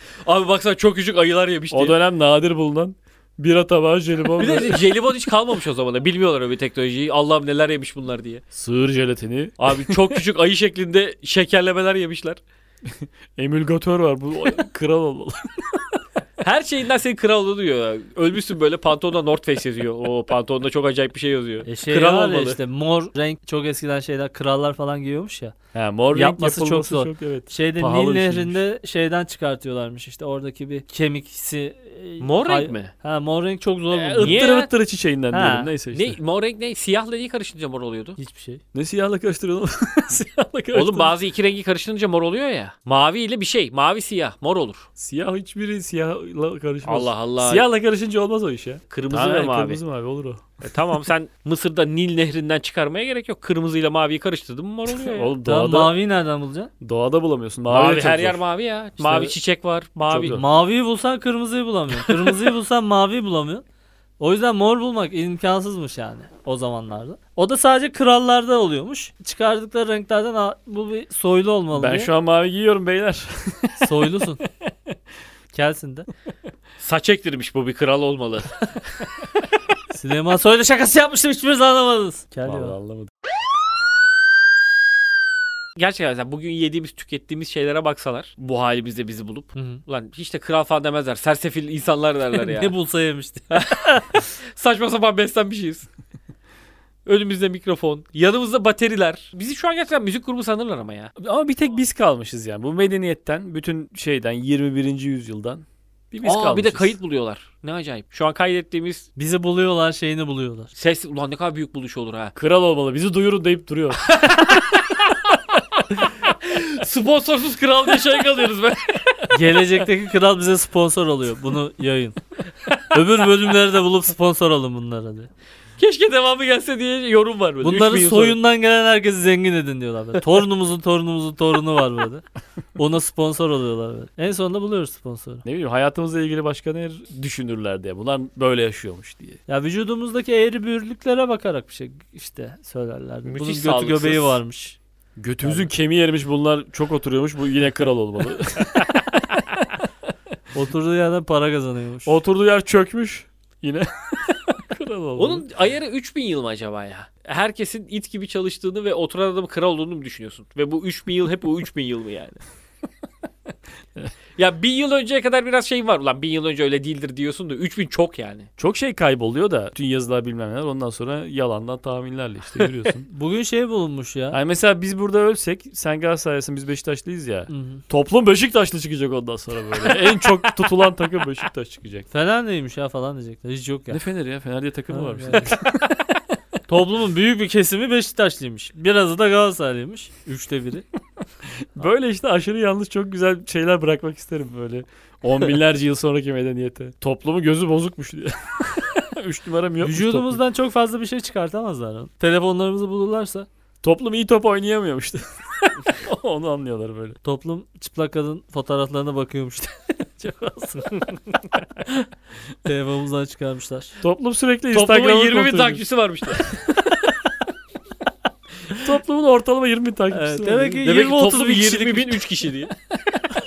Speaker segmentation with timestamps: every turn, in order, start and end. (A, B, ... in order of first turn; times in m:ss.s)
0:00.2-0:02.0 A
0:01.7-0:04.9 B
0:04.4-0:08.4 A
0:08.5-0:10.2 B
0:09.6-0:12.4 A
0:12.9-0:15.8 B
0:16.4-0:22.6 A
0:21.6-0:25.6 C
0:25.7-0:28.6 B
0:26.1-0:34.6 C
0:32.2-0:32.9 A
0:33.9-0:34.7 A
0:34.2-0:36.2 B
0:35.3-0:35.7 C
0:35.9-0:38.2 A
0:38.2-0:38.6 C
0:38.7-0:41.1 B
0:40.7-0:44.9 A
0:45.0-0:50.5 B
0:46.8-0:47.7 A
0:48.9-0:49.8 A
0:50.6-0:55.3 A
0:54.9-0:56.0 B
0:55.4-0:56.7 C
0:56.8-0:58.4 B
0:57.7-1:00.4 A
1:00.1-1:00.4 B
1:00.3-1:03.6 C
1:04.2-1:12.1 C
1:11.7-1:14.7 B
1:13.8-1:14.4 C
1:15.5-1:16.1 C
1:16.8-1:18.8 A
1:19.9-1:22.8 C
1:22.4-1:23.1 B
1:25.8-1:32.7 A
1:29.6-1:29.8 C
1:32.4-1:34.2 C
1:33.5-1:35.9 A
1:37.1-1:41.1 A
1:41.2-1:47.0 B
1:46.2-1:49.1 A
1:49.2-1:50.7 C
1:50.8-1:52.3 A
1:52.4-1:54.2 B
1:54.1-1:55.2 A
1:56.2-1:59.3 A
1:59.3-2:02.2 C
2:02.9-2:05.3 C
2:05.8-2:08.4 A
2:07.6-2:12.2 C
2:12.8-2:15.4 C
2:15.4-2:19.4 B
2:19.5-2:24.8 C
2:23.2-2:24.4 A
2:25.2-2:29.6 B
2:25.4-2:25.7 C
2:30.5-2:32.2 C
2:32.1-2:35.5 B
2:35.2-2:42.4 A
2:44.4-2:48.5 A
2:48.6-2:53.1 B
2:53.1-2:54.4 C
2:54.3-3:02.1 B
2:57.5-2:57.8 C
3:02.1-3:04.0 C
3:03.9-3:06.0 B
3:04.9-3:05.6 C
3:06.7-3:10.9 C
3:11.8-3:20.4 B
3:19.8-3:23.5 C
3:23.8-3:27.2 B
3:27.2-3:31.0 C
3:32.6-3:34.0 C
3:34.0-3:35.8 B
3:34.7-3:36.5 A
3:38.8-3:40.9 B
3:40.1-3:42.3 C
3:40.8-3:42.7 A